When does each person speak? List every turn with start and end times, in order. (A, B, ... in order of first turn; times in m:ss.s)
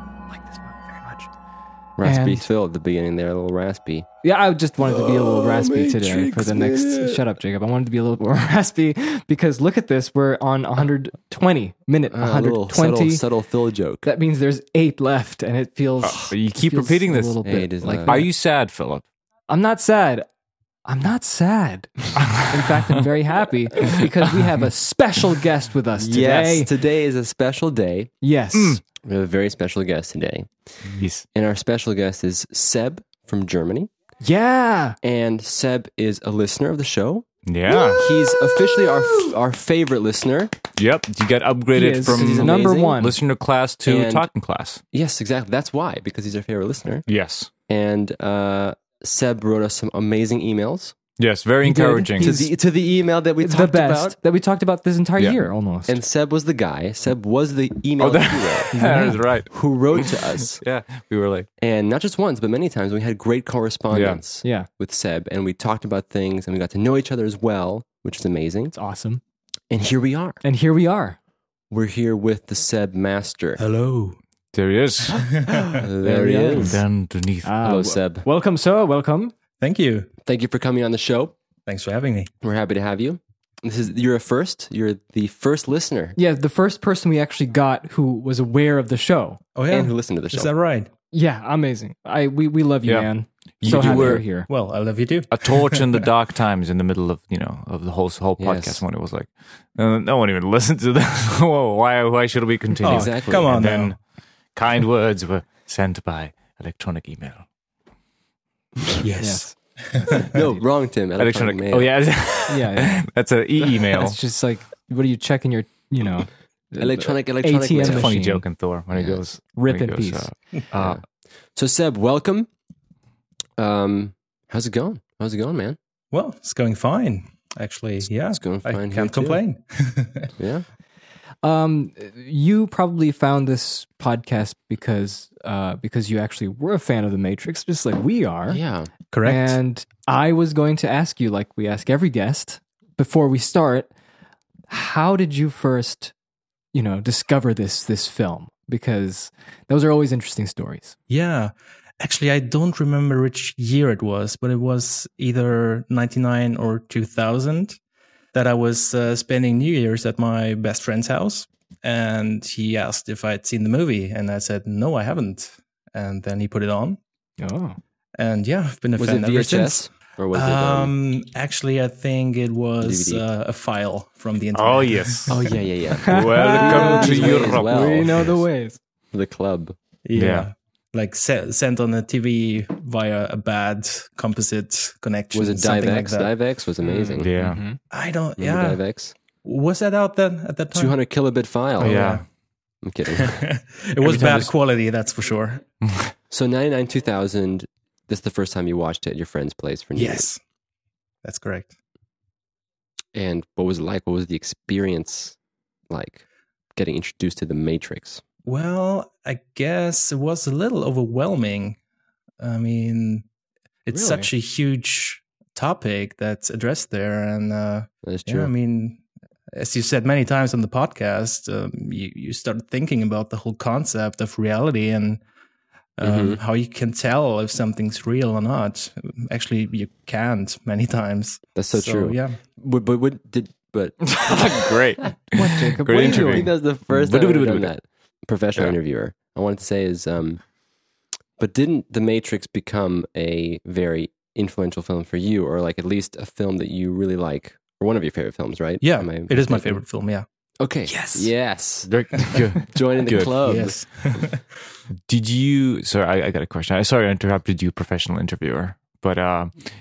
0:00.3-0:01.3 A
0:02.0-0:04.1 B
0:02.0-0:02.5 A
0:04.2-0:13.2 A
0:04.8-0:07.2 B
0:12.1-0:14.1 B
0:14.0-0:18.3 A
0:16.0-0:17.4 C
0:17.4-0:18.2 B
0:18.1-0:19.0 C
0:19.5-0:20.3 A
0:20.8-0:26.7 A
0:22.2-0:22.9 C
0:26.0-0:28.1 B
0:28.2-0:28.8 A
0:28.5-0:28.8 C
0:28.9-0:30.5 B
0:30.8-0:31.2 C
0:31.3-0:33.9 B
0:34.2-0:35.0 A
0:35.0-0:37.3 B
0:37.4-0:38.1 C
0:37.8-0:40.6 B
0:40.8-0:44.8 C
0:41.7-0:43.2 A
0:42.0-0:43.1 B
0:43.8-0:44.3 B
0:44.9-0:47.0 B
0:47.1-0:47.5 C
0:47.7-0:50.9 B
0:51.2-0:52.5 C
0:51.6-0:52.5 A
0:52.2-0:54.2 B
0:53.4-0:56.0 A
0:55.9-0:58.9 B
0:58.0-1:01.5 C
0:58.8-0:59.1 A
0:59.5-1:00.6 B
1:01.6-1:08.7 B
1:03.9-1:04.2 C
1:04.4-1:04.7 A
1:08.7-1:09.2 A
1:09.7-1:10.4 B
1:10.4-1:11.2 A
1:11.7-1:13.6 B
1:13.6-1:14.2 D
1:14.5-1:15.6 C
1:15.1-1:15.8 D
1:15.7-1:16.8 B
1:16.0-1:16.8 A
1:16.6-1:17.5 C
1:17.4-1:19.3 A
1:17.6-1:18.2 B
1:19.6-1:20.1 D
1:20.2-1:21.3 B
1:21.6-1:22.3 D
1:22.4-1:26.2 B
1:26.2-1:29.4 A
1:29.5-1:30.9 D
1:29.7-1:30.5 B
1:31.1-1:34.5 A
1:33.6-1:34.2 C
1:33.7-1:36.0 D
1:35.3-1:44.0 C
1:38.4-1:38.8 B
1:42.8-1:43.6 B
1:42.8-1:43.9 D
1:44.5-1:47.4 C
1:49.0-1:50.4 D
1:49.2-1:50.3 A
1:50.2-1:51.9 B
1:51.2-1:54.2 C
1:52.5-1:53.0 A
1:53.6-1:58.4 A
1:56.8-1:58.1 B
1:57.8-2:01.0 C
1:58.9-1:59.2 B
1:59.6-2:00.3 A
2:00.7-2:02.5 B
2:03.6-2:05.8 B
2:06.1-2:10.3 D
2:08.3-2:09.4 B
2:10.4-2:10.6 B
2:11.4-2:18.6 A
2:18.5-2:18.9 B
2:19.1-2:19.6 D
2:19.2-2:23.9 A
2:24.7-2:26.1 A
2:26.7-2:31.0 A
2:31.1-2:37.8 D
2:38.3-2:47.0 D
2:47.4-2:47.8 A
2:48.2-2:55.3 D
2:49.0-2:50.9 B
2:52.8-2:53.2 B
2:54.5-2:58.3 C
2:55.3-2:58.4 B
2:56.1-2:58.8 A
2:59.1-2:59.8 B
3:00.0-3:06.3 D
3:00.2-3:00.5 C
3:05.3-3:07.3 B
3:07.0-3:07.6 C
3:07.0-3:07.8 A
3:07.9-3:08.8 D
3:08.4-3:09.1 B
3:09.4-3:11.0 D
3:10.7-3:12.0 B
3:11.8-3:12.2 D
3:11.8-3:12.2 C
3:12.8-3:13.4 B
3:13.1-3:15.6 D
3:14.0-3:14.5 C
3:15.8-3:16.1 C
3:16.3-3:20.2 B
3:19.9-3:20.4 D
3:21.2-3:21.7 D
3:23.1-3:25.4 B
3:25.9-3:26.2 B
3:26.8-3:28.2 B
3:28.4-3:31.8 D
3:32.4-3:33.2 D
3:33.8-3:39.0 D
3:33.9-3:34.3 A
3:38.0-3:38.5 B
3:39.5-3:45.2 D
3:46.0-3:52.4 D
3:46.0-3:46.4 B
3:51.6-3:54.7 B
3:54.0-3:57.7 C
3:55.3-3:56.5 A
3:55.8-4:00.4 B
4:01.4-4:09.8 B
4:08.8-4:10.2 D
4:10.6-4:13.8 B
4:10.8-4:11.3 A
4:11.9-4:13.4 C
4:13.4-4:14.4 D
4:15.1-4:19.5 C